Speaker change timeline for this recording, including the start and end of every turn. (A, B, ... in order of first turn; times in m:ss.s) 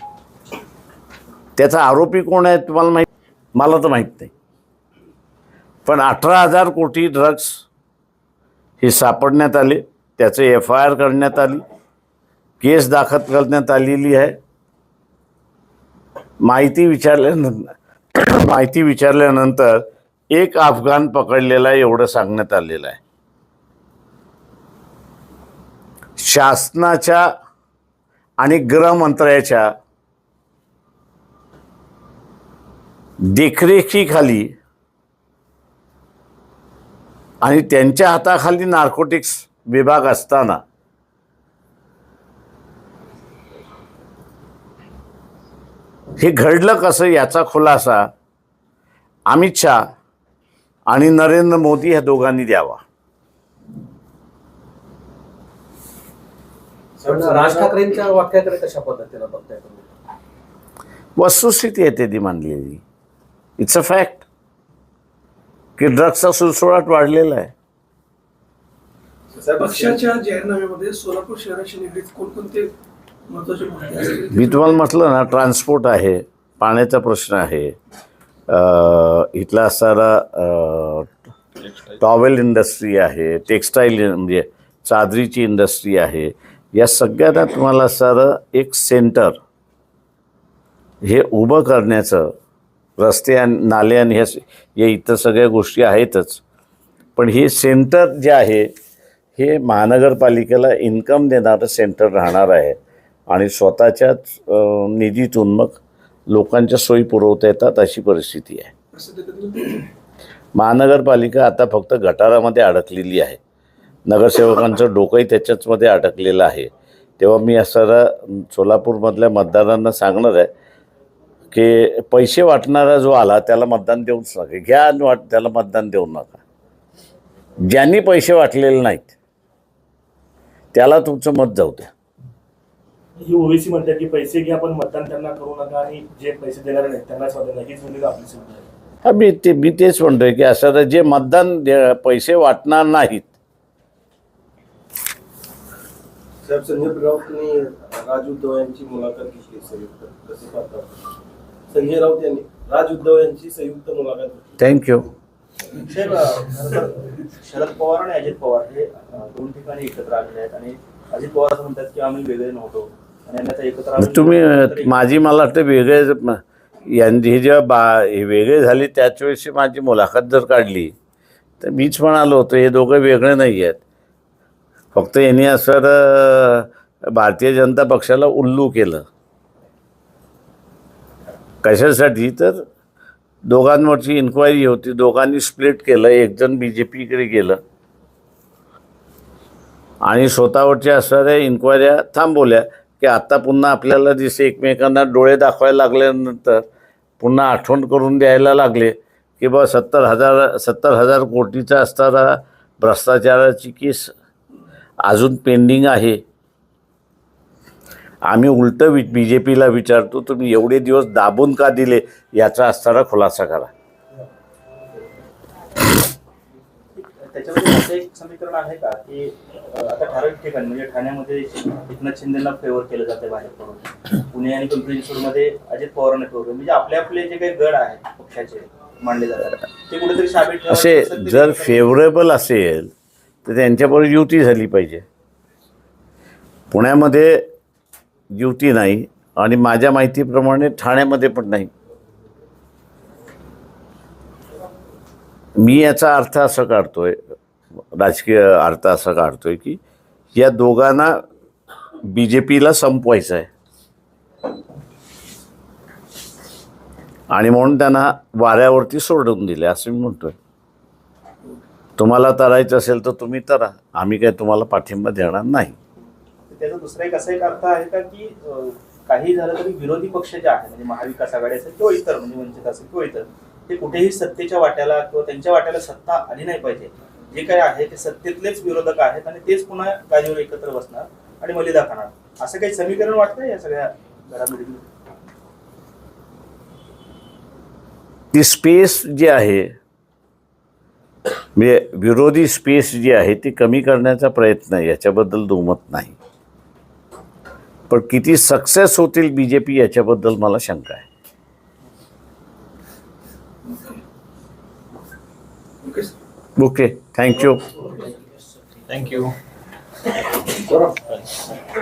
0:01.6-0:04.3 A
0:05.9-0:07.6 A
0:08.8-0:11.6 A
0:12.6-0:14.4 A
0:16.4-0:23.0 A
0:26.2-0:27.3 A
0:28.4-0:29.7 A
0:33.3-0:34.5 A
0:37.4-0:40.6 A
0:46.2-0:48.1 A
0:49.3-0:49.8 A
0:50.9-0:52.8 A
0:57.0-0:57.9 B
0:57.1-0:59.8 C
1:01.2-1:02.8 A
1:03.6-1:04.2 A
1:05.8-1:07.5 A
1:09.4-1:10.1 B
1:09.6-1:12.7 D
1:13.3-1:14.4 D
1:14.3-1:17.8 A
1:18.5-1:21.1 A
1:22.0-1:29.4 A
1:31.0-1:32.3 A
1:33.0-1:36.4 A
1:37.2-1:38.7 A
1:39.4-1:42.8 A
1:43.3-1:45.8 A
1:46.3-1:48.7 A
1:49.0-1:49.8 D
1:50.6-1:53.4 A
1:54.1-2:00.5 A
2:01.5-2:06.4 A
2:07.7-2:09.1 A
2:10.7-2:11.9 A
2:13.2-2:18.7 E
2:19.0-2:23.3 A
2:26.4-2:30.9 B
2:31.7-2:34.6 B
2:34.6-2:35.1 A
2:35.8-2:44.9 F
2:44.0-2:50.9 A
2:51.6-2:53.8 A
2:54.9-2:59.0 A
3:01.6-3:02.6 A
3:03.5-3:07.6 A
3:10.0-3:16.6 A
3:17.2-3:24.1 A
3:25.0-3:26.2 A
3:28.3-3:33.7 A
3:37.0-3:52.0 F
3:50.7-3:52.9 A
3:53.4-3:55.0 A
3:56.7-3:57.5 A
3:58.3-4:01.7 A
4:05.6-4:07.2 A
4:07.9-4:09.8 A
4:10.4-4:11.2 A
4:12.1-4:13.5 A
4:17.3-4:20.4 A
4:22.0-4:25.8 A
4:26.5-4:44.8 F
4:48.3-4:49.7 A
4:51.6-4:56.2 A
4:57.9-5:01.0 A
5:06.6-5:07.6 A